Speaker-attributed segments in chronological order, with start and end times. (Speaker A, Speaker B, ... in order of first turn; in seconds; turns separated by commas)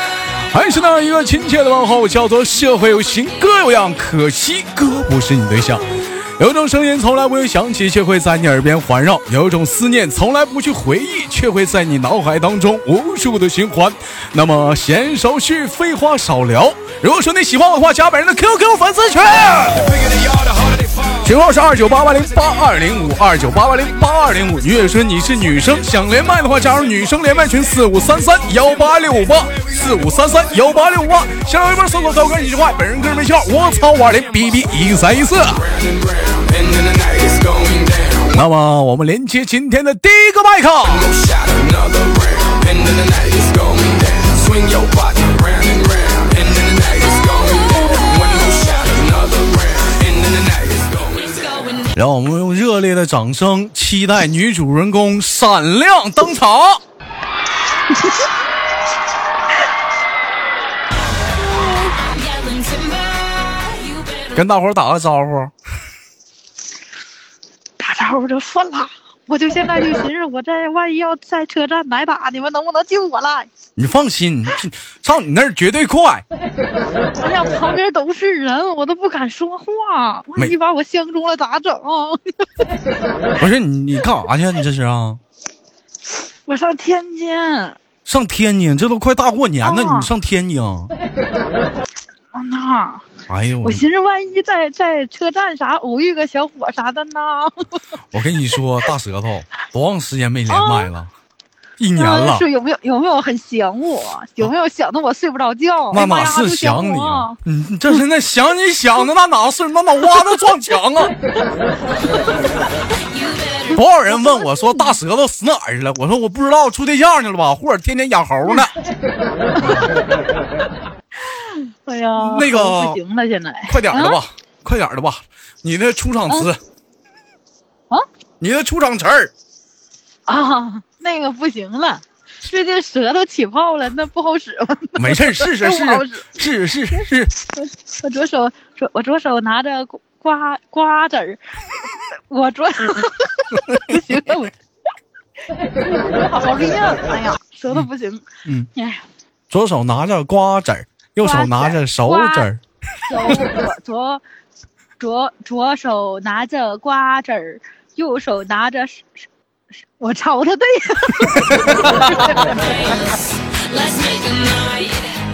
Speaker A: 0.3-20.1, Speaker A: 21.0-35.7, Speaker A: 38.1-41.1, Speaker A: 51.9-56.8, Speaker B: 57.9-58.3, Speaker A: 64.3-65.5, Speaker B: 67.8-73.5, Speaker A: 73.8-76.2, Speaker B: 77.2-82.7, Speaker A: 83.4-85.2, Speaker B: 86.5-87.8, Speaker A: 88.0-90.9, Speaker B: 89.6-90.1, Speaker B: 92.3-93.0, Speaker A: 93.3-93.8, Speaker B: 93.6-97.7, Speaker A: 98.1-101.1, Speaker B: 100.5-100.9, Speaker A: 101.8-102.4, Speaker B: 102.0-107.4, Speaker A: 105.9-111.1, Speaker B: 112.0-112.7, Speaker A: 113.7-118.7, Speaker B: 119.5-120.2, Speaker A: 119.6-119.9, Speaker B: 121.2-124.2, Speaker A: 122.2-123.0, Speaker A: 123.7-126.6, Speaker A: 128.4-129.3, Speaker B: 130.3-136.3, Speaker A: 134.9-137.3, Speaker B: 136.9-144.6, Speaker B: 145.7-149.0, Speaker A: 148.4-148.7, Speaker A: 149.5-152.6, Speaker B: 151.2-152.5, Speaker B: 153.0-154.2, Speaker B: 155.0-159.3, Speaker B: 160.0-162.9, Speaker A: 161.2-162.5, Speaker B: 163.7-164.9